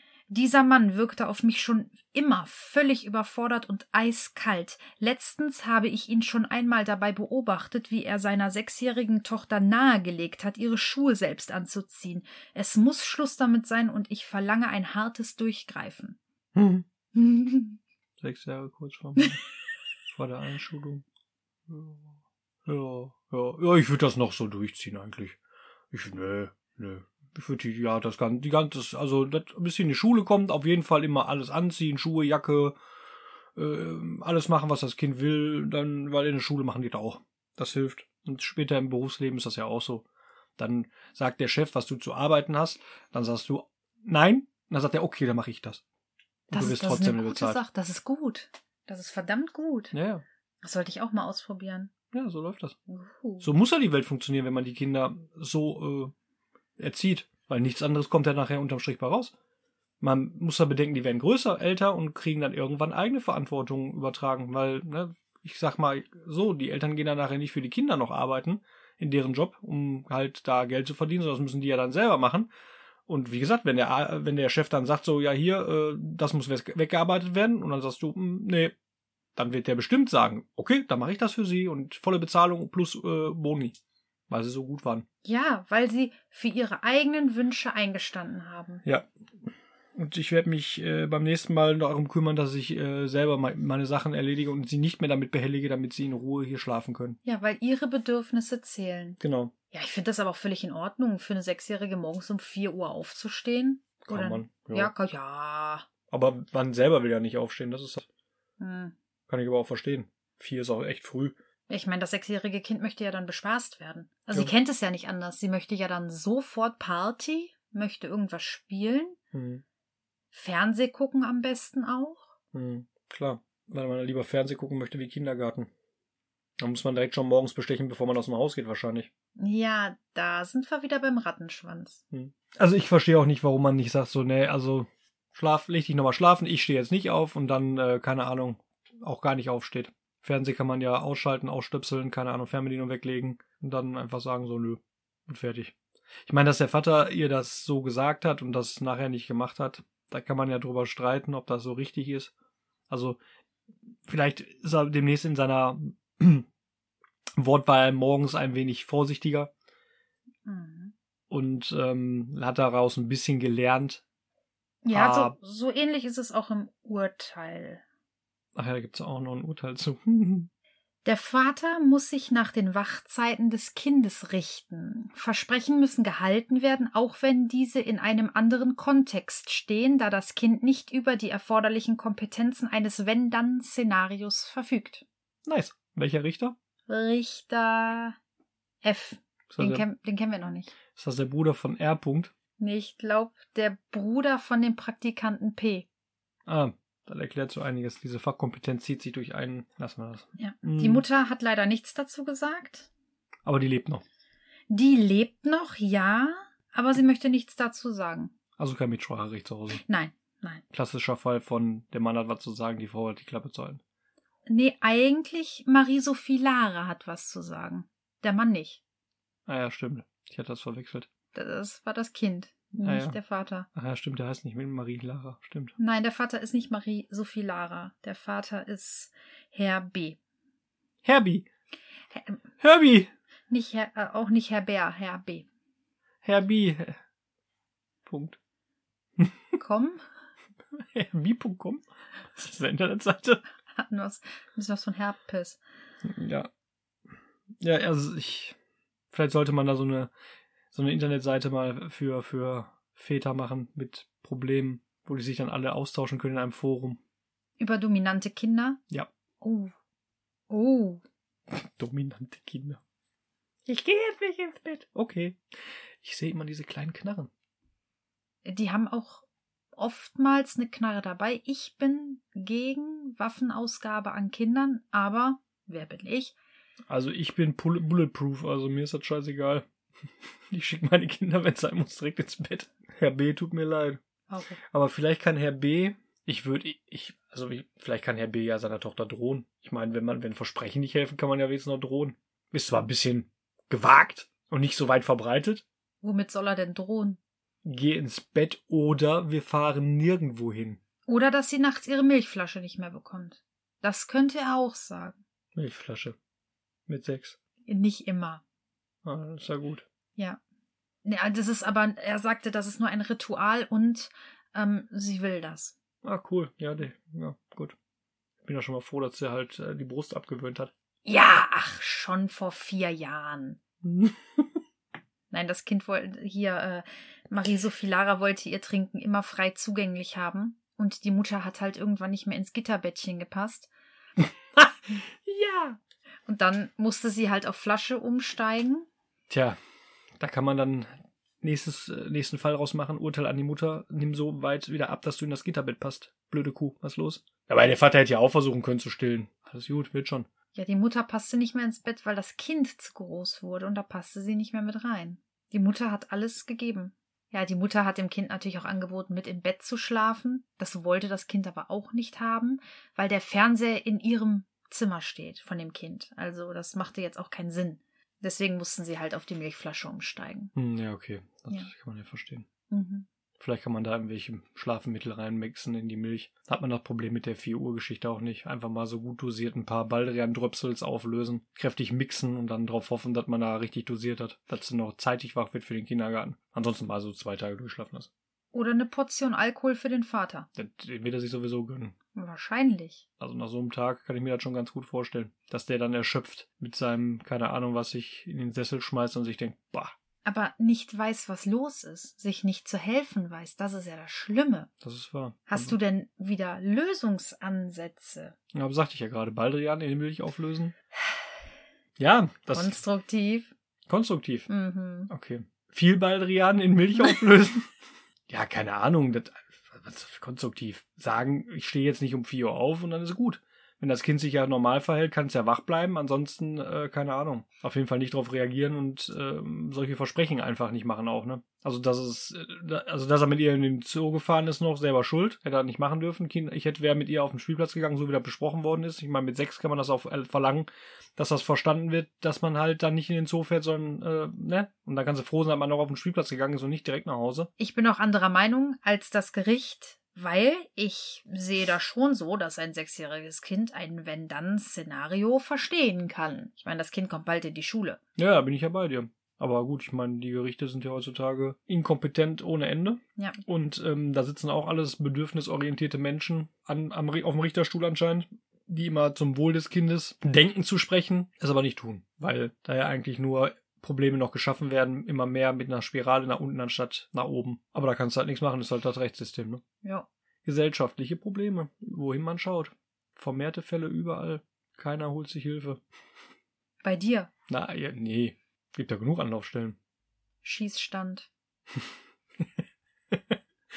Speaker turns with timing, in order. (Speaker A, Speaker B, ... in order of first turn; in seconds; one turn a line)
Speaker A: 0.3-16.2
Speaker B: 16.6-16.9
Speaker A: 17.1-17.8
Speaker B: 18.2-19.4
Speaker B: 20.1-21.0
Speaker B: 21.7-25.4
Speaker B: 25.9-32.8
Speaker B: 33.6-40.1
Speaker B: 40.6-45.8
Speaker B: 46.5-47.6
Speaker A: 46.5-49.9
Speaker B: 49.9-50.2
Speaker A: 50.6-51.9
Speaker B: 52.1-52.8
Speaker A: 52.9-53.5
Speaker B: 53.4-56.1
Speaker B: 56.8-59.3
Speaker B: 60.0-72.5
Speaker B: 73.1-78.8
Speaker B: 79.4-83.8
Speaker B: 84.3-85.0
Speaker A: 85.2-88.8
Speaker B: 88.8-97.2
Speaker A: 97.2-105.9
Speaker B: 99.2-99.5
Speaker B: 104.0-104.9
Speaker B: 106.1-108.1
Speaker A: 108.6-109.0
Speaker B: 109.3-111.4
Speaker A: 111.7-119.2
Speaker B: 119.3-119.6
Speaker A: 120.3-122.3
Speaker B: 122.5-125.7
Speaker B: 126.6-129.1
Speaker A: 129.4-132.0
Speaker B: 132.1-145.8
Speaker B: 146.3-152.3
Speaker B: 152.9-153.2
Speaker B: 154.1-156.5
Speaker B: 157.4-159.5
Speaker A: 160.5-160.9
Speaker B: 161.3-164.0
Speaker A: 164.8-167.8
Speaker B: 164.9-165.3
Speaker B: 168.6-170.5
Speaker A: 171.1-185.1
Speaker B: 185.5-186.6
Speaker A: 186.9-188.2
Speaker A: 188.8-190.7
Speaker B: 189.5-189.8
Speaker B: 191.0-192.3
Speaker A: 192.6-195.9
Speaker B: 196.5-201.1
Speaker A: 200.4-202.9
Speaker B: 203.4-204.0
Speaker A: 204.7-208.3
Speaker B: 208.6-209.8
Speaker A: 209.7-210.6
Speaker B: 210.7-213.8
Speaker A: 214.5-218.8
Speaker B: 219.5-221.1
Speaker A: 221.3-223.7
Speaker B: 222.8-223.2
Speaker B: 223.8-225.8
Speaker A: 225.8-230.2
Speaker B: 231.0-231.5
Speaker A: 232.1-232.4
Speaker B: 232.6-233.1
Speaker A: 233.5-235.5
Speaker B: 236.2-237.0
Speaker B: 238.1-238.4
Speaker A: 239.6-240.0
Speaker B: 240.8-243.4
Speaker A: 243.8-245.6
Speaker B: 246.0-246.5
Speaker B: 247.6-248.6
Speaker B: 249.1-250.1
Speaker B: 250.7-257.0
Speaker A: 257.6-258.8
Speaker A: 259.4-259.7
Speaker A: 260.5-261.0
Speaker B: 261.5-262.8
Speaker B: 263.7-265.4
Speaker B: 266.0-267.3
Speaker A: 268.4-276.4
Speaker B: 276.9-279.6
Speaker B: 280.5-284.0
Speaker A: 284.3-284.6
Speaker B: 284.7-295.6
Speaker A: 296.0-297.2
Speaker B: 297.6-300.8
Speaker A: 301.1-305.2
Speaker B: 305.6-306.2
Speaker B: 306.9-307.4
Speaker A: 307.7-308.4
Speaker B: 309.1-309.9
Speaker A: 311.1-315.8
Speaker B: 316.0-317.8
Speaker B: 318.4-320.7
Speaker A: 321.1-323.6
Speaker B: 323.8-324.5
Speaker A: 325.3-333.7
Speaker B: 334.6-335.8
Speaker A: 336.3-338.9
Speaker B: 339.3-339.6
Speaker B: 340.2-350.3
Speaker A: 350.5-370.5
Speaker B: 370.6-372.5
Speaker A: 372.7-373.1
Speaker B: 373.4-388.1
Speaker A: 388.5-390.5
Speaker B: 390.6-391.9
Speaker A: 392.1-393.0
Speaker B: 393.2-399.9
Speaker A: 400.2-404.7
Speaker B: 404.8-405.8
Speaker A: 405.5-408.4
Speaker B: 408.5-410.7
Speaker B: 412.0-412.8
Speaker A: 412.5-413.5
Speaker B: 413.9-414.5
Speaker A: 414.5-415.1
Speaker B: 415.1-417.7
Speaker B: 418.3-447.5
Speaker A: 447.6-458.0
Speaker B: 458.2-479.6
Speaker A: 479.8-480.1
Speaker B: 480.4-485.8
Speaker A: 486.8-487.3
Speaker B: 487.5-489.8
Speaker A: 490.4-491.3